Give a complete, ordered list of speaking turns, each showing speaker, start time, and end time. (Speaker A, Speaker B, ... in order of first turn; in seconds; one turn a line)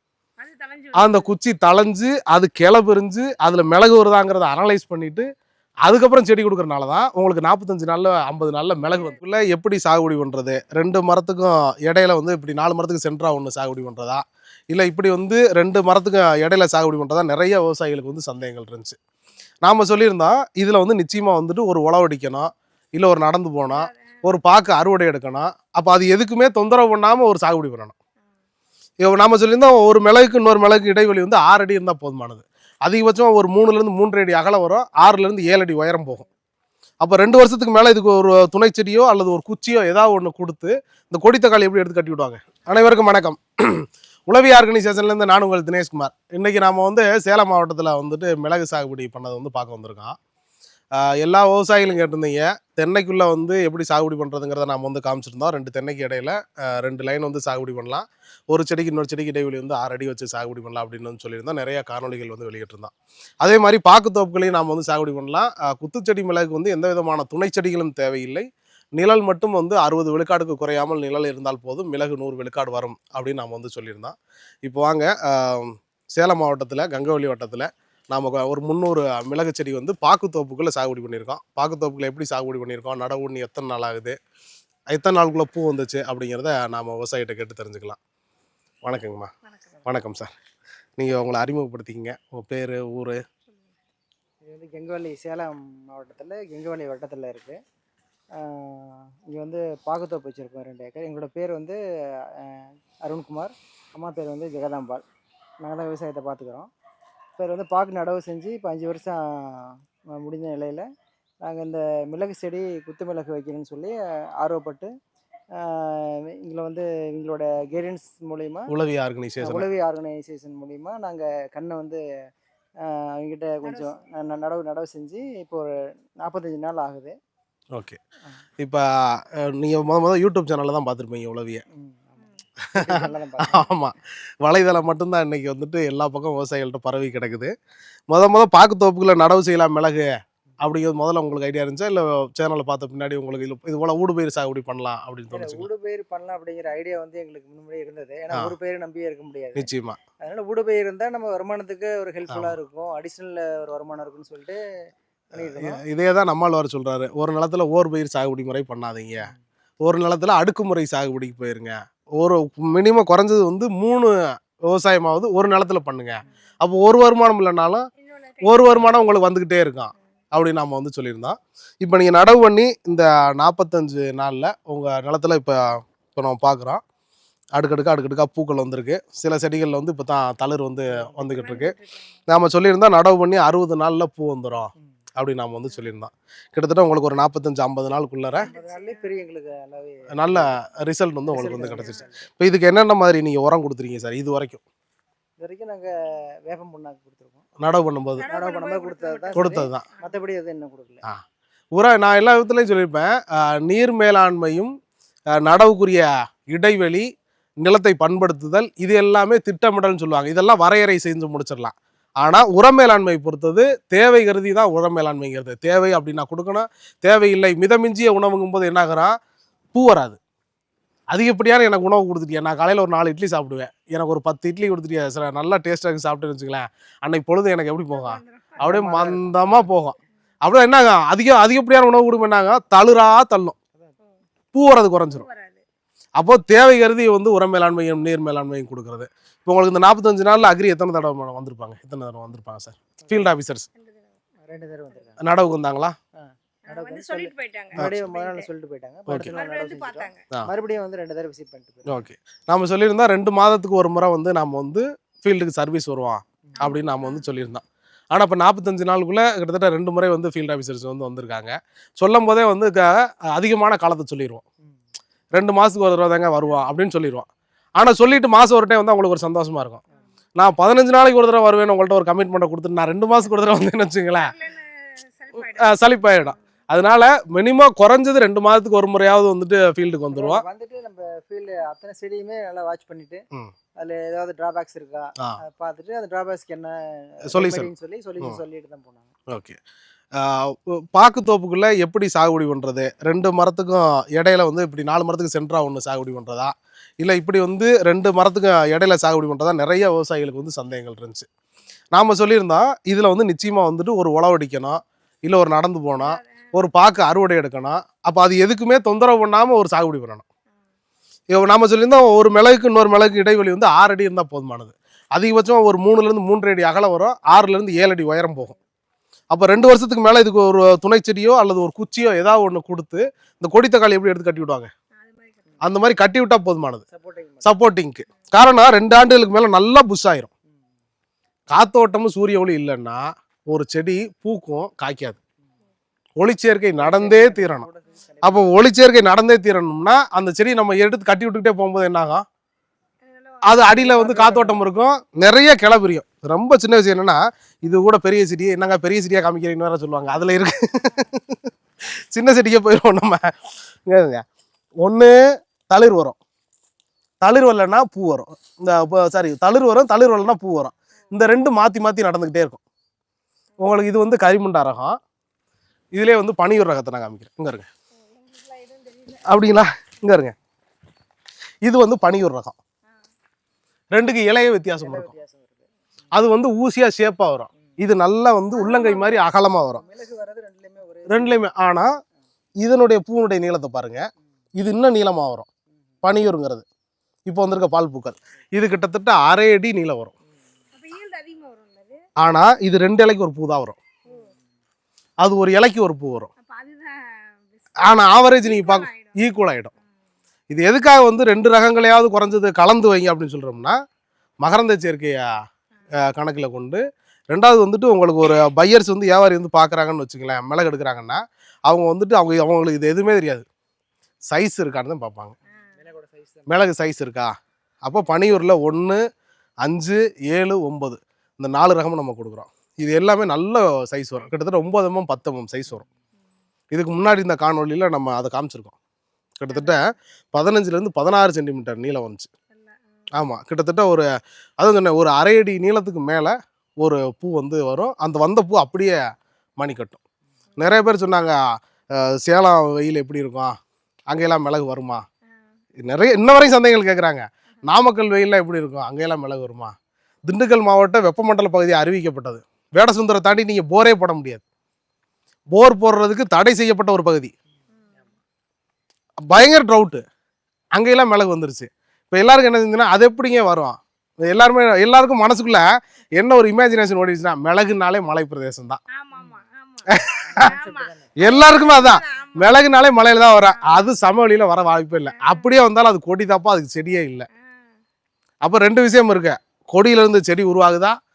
Speaker A: 0.4-1.3
Speaker B: 0.9-5.3
Speaker B: 5.8-19.0
Speaker A: 8.9-9.2
Speaker B: 19.6-27.9
Speaker A: 23.7-24.2
Speaker B: 29.0-36.2
Speaker B: 37.0-50.2
Speaker B: 51.0-84.2
Speaker B: 84.9-88.0
Speaker B: 88.8-89.3
Speaker B: 89.9-90.3
Speaker B: 91.0-93.2
Speaker C: 94.4-97.6
Speaker C: 98.4-101.8
Speaker C: 102.3-105.0
Speaker C: 105.6-106.7
Speaker C: 107.4-110.9
Speaker C: 111.5-114.9
Speaker C: 115.6-118.7
Speaker B: 118.7-119.7
Speaker C: 119.4-122.0
Speaker C: 122.8-125.7
Speaker A: 123.6-123.9
Speaker C: 126.2-127.2
Speaker B: 128.6-131.6
Speaker C: 131.7-132.2
Speaker C: 132.8-133.7
Speaker B: 132.8-137.5
Speaker B: 138.1-140.1
Speaker B: 140.6-145.7
Speaker C: 145.3-154.6
Speaker B: 149.6-150.0
Speaker B: 152.3-152.6
Speaker C: 155.3-155.8
Speaker B: 155.4-159.3
Speaker B: 159.8-167.9
Speaker A: 168.0-168.8
Speaker B: 168.4-176.8
Speaker B: 177.6-181.7
Speaker C: 180.9-181.4
Speaker A: 181.3-182.2
Speaker B: 182.3-188.5
Speaker A: 188.4-189.1
Speaker C: 188.4-190.5
Speaker B: 190.1-194.6
Speaker C: 191.3-192.2
Speaker A: 191.8-192.1
Speaker C: 195.4-195.9
Speaker C: 196.4-197.4
Speaker B: 197.6-198.2
Speaker A: 198.2-200.2
Speaker C: 198.3-201.1
Speaker B: 199.3-199.9
Speaker B: 201.8-204.7
Speaker B: 205.4-207.1
Speaker B: 207.6-219.2
Speaker B: 219.7-220.2
Speaker B: 221.1-233.6
Speaker A: 227.9-228.6
Speaker C: 228.6-229.8
Speaker B: 234.5-235.3
Speaker A: 235.1-235.6
Speaker B: 236.2-243.7
Speaker C: 243.0-243.3
Speaker A: 243.8-244.2
Speaker C: 244.4-245.2
Speaker B: 245.2-246.0
Speaker C: 246.2-251.9
Speaker A: 246.7-248.5
Speaker B: 249.1-249.3
Speaker A: 249.3-250.2
Speaker B: 251.9-264.4
Speaker A: 256.6-257.3
Speaker B: 265.3-269.8
Speaker B: 270.4-274.3
Speaker A: 274.1-276.3
Speaker B: 275.4-280.4
Speaker C: 280.1-283.2
Speaker C: 283.8-289.1
Speaker B: 287.3-287.7
Speaker B: 289.3-289.6
Speaker B: 290.2-301.3
Speaker B: 301.9-310.2
Speaker A: 306.0-306.5
Speaker B: 311.3-318.6
Speaker B: 319.3-324.7
Speaker A: 325.0-325.5
Speaker B: 325.6-326.8
Speaker C: 326.9-327.6
Speaker B: 327.4-330.3
Speaker B: 331.5-335.2
Speaker B: 336.2-337.7
Speaker C: 336.8-338.6
Speaker B: 338.2-342.2
Speaker A: 343.1-343.8
Speaker B: 343.4-351.4
Speaker C: 343.7-344.6
Speaker B: 352.0-354.2
Speaker B: 354.8-355.2
Speaker B: 355.7-356.2
Speaker B: 357.2-362.6
Speaker B: 363.6-365.0
Speaker B: 365.9-367.7
Speaker A: 368.0-369.5
Speaker B: 369.2-370.4
Speaker B: 371.6-372.6
Speaker B: 373.9-375.1
Speaker C: 374.8-375.6
Speaker B: 376.1-379.8
Speaker A: 378.5-379.2
Speaker C: 379.7-381.5
Speaker B: 381.1-381.9
Speaker B: 382.6-384.0
Speaker B: 384.6-385.5
Speaker B: 386.0-386.6
Speaker B: 387.3-390.1
Speaker A: 390.7-392.0
Speaker B: 392.2-393.8
Speaker B: 395.2-396.3
Speaker A: 396.4-396.9
Speaker A: 397.6-399.3
Speaker B: 397.8-399.7
Speaker B: 400.5-403.8
Speaker B: 404.4-405.3
Speaker B: 406.0-406.8
Speaker B: 407.3-413.5
Speaker B: 414.3-415.4
Speaker C: 415.7-416.5
Speaker B: 416.5-417.3
Speaker B: 417.8-419.0
Speaker B: 419.6-425.9
Speaker B: 426.7-428.8
Speaker B: 429.4-429.8
Speaker B: 430.3-432.3
Speaker B: 433.2-434.1
Speaker B: 434.6-439.0
Speaker B: 439.6-440.0
Speaker B: 440.6-441.4
Speaker B: 442.0-443.6
Speaker B: 444.1-445.0
Speaker B: 445.8-449.8
Speaker B: 450.3-454.4
Speaker B: 455.5-457.3
Speaker B: 459.2-460.0
Speaker B: 460.7-465.7
Speaker B: 466.2-468.8
Speaker A: 468.9-472.6
Speaker B: 469.9-470.4
Speaker C: 470.2-471.2
Speaker B: 471.2-477.3
Speaker A: 473.4-474.0
Speaker A: 475.1-475.5
Speaker B: 478.4-481.0